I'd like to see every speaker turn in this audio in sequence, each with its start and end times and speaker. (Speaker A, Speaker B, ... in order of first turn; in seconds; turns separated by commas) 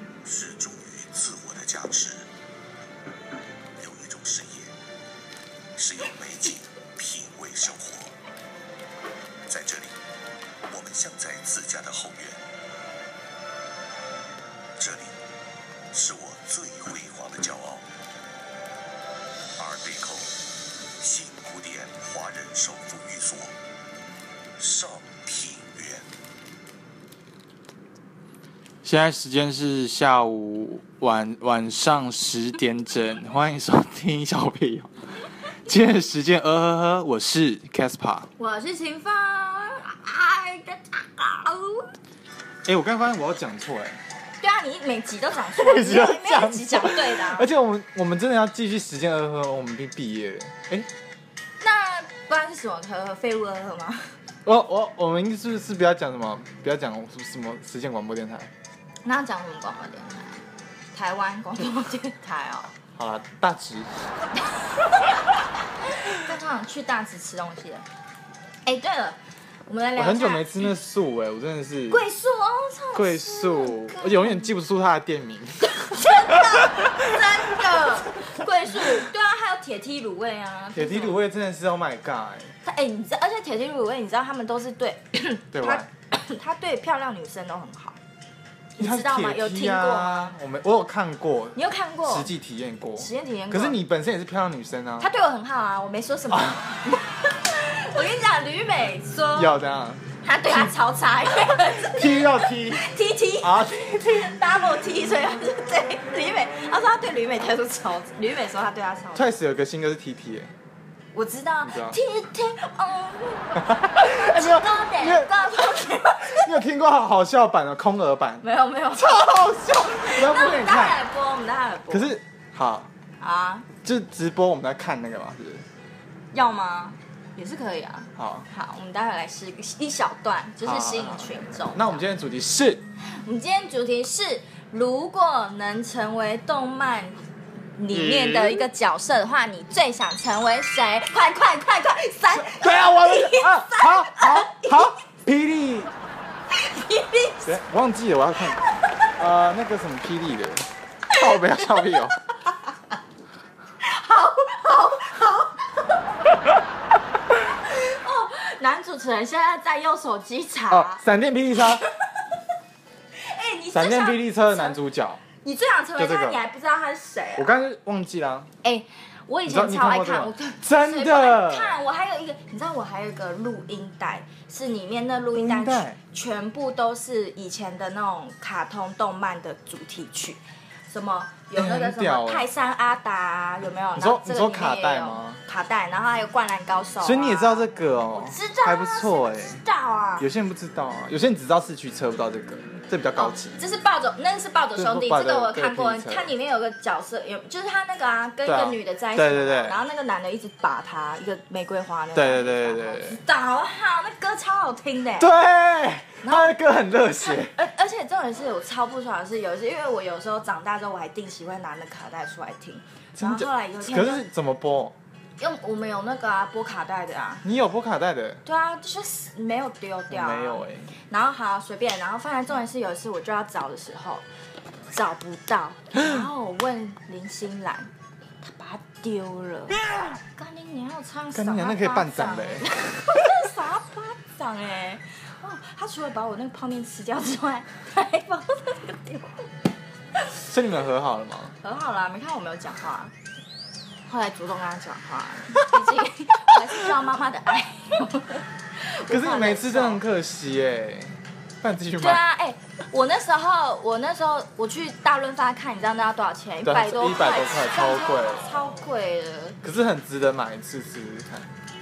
Speaker A: 0.2-2.3, Speaker A: 3.8-4.7, Speaker A: 5.8-8.1, Speaker A: 9.5-10.0, Speaker A: 10.7-12.4, Speaker A: 14.8-15.2, Speaker A: 15.9-17.9, Speaker A: 19.6-20.4, Speaker A: 21.0-23.6, Speaker A: 24.6-26.1, Speaker B: 28.8-34.9, Speaker B: 35.7-38.3, Speaker C: 38.4-41.9, Speaker B: 42.6-44.0, Speaker C: 44.4-47.5, Speaker B: 45.6-50.9, Speaker C: 51.6-54.1, Speaker B: 54.5-58.5, Speaker C: 59.0-62.7, Speaker B: 62.9-63.9, Speaker C: 64.5-65.3, Speaker C: 66.0-67.8, Speaker C: 68.7-70.7, Speaker B: 70.0-72.0, Speaker C: 71.9-74.5, Speaker B: 72.9-76.9, Speaker C: 75.7-81.2, Speaker B: 80.7-82.5, Speaker C: 82.7-88.0, Speaker B: 85.5-85.9, Speaker C: 88.8-90.3, Speaker B: 88.8-95.1, Speaker C: 91.5-92.3, Speaker C: 93.0-93.8, Speaker C: 95.0-99.6, Speaker B: 96.3-96.6, Speaker B: 99.3-100.7, Speaker C: 100.2-109.3, Speaker B: 101.4-104.4, Speaker B: 109.1-110.5, Speaker C: 111.1-116.5, Speaker B: 111.6-112.0, Speaker B: 113.6-118.4, Speaker C: 118.4-122.2, Speaker B: 119.0-121.0, Speaker B: 121.9-122.9, Speaker C: 123.2-123.7, Speaker B: 123.8-125.7, Speaker C: 126.3-132.0, Speaker B: 128.2-128.5, Speaker B: 130.6-132.8, Speaker C: 133.2-137.2, Speaker C: 137.8-145.0, Speaker B: 137.9-138.7, Speaker B: 142.3-145.9, Speaker C: 146.5-147.6, Speaker B: 147.5-148.6, Speaker B: 149.2-152.2, Speaker C: 151.1-152.0, Speaker C: 153.8-155.8, Speaker C: 157.6-161.0, Speaker B: 160.7-161.8, Speaker C: 163.2-164.8, Speaker B: 163.7-165.2, Speaker C: 165.4-167.5, Speaker B: 166.0-166.4, Speaker B: 167.4-168.5, Speaker C: 168.6-190.3, Speaker B: 169.5-171.8, Speaker B: 175.3-176.0, Speaker B: 181.5-182.5, Speaker B: 184.0-185.4, Speaker B: 187.0-189.6, Speaker B: 190.2-193.6, Speaker C: 193.2-205.3, Speaker B: 194.8-196.3, Speaker B: 198.4-199.8, Speaker B: 202.2-203.2, Speaker B: 205.2-207.5, Speaker C: 206.2-206.6, Speaker C: 207.2-214.2, Speaker B: 213.2-214.9, Speaker C: 215.4-217.4, Speaker B: 217.4-218.4, Speaker C: 218.4-224.2, Speaker B: 220.1-220.9, Speaker C: 224.9-227.9, Speaker B: 225.9-226.3, Speaker C: 228.4-229.8, Speaker C: 230.3-239.5, Speaker B: 231.3-233.5, Speaker B: 240.4-241.6, Speaker C: 241.6-243.1, Speaker C: 244.1-250.0, Speaker B: 249.1-252.2, Speaker C: 252.0-259.6, Speaker B: 256.6-258.7, Speaker B: 259.6-261.5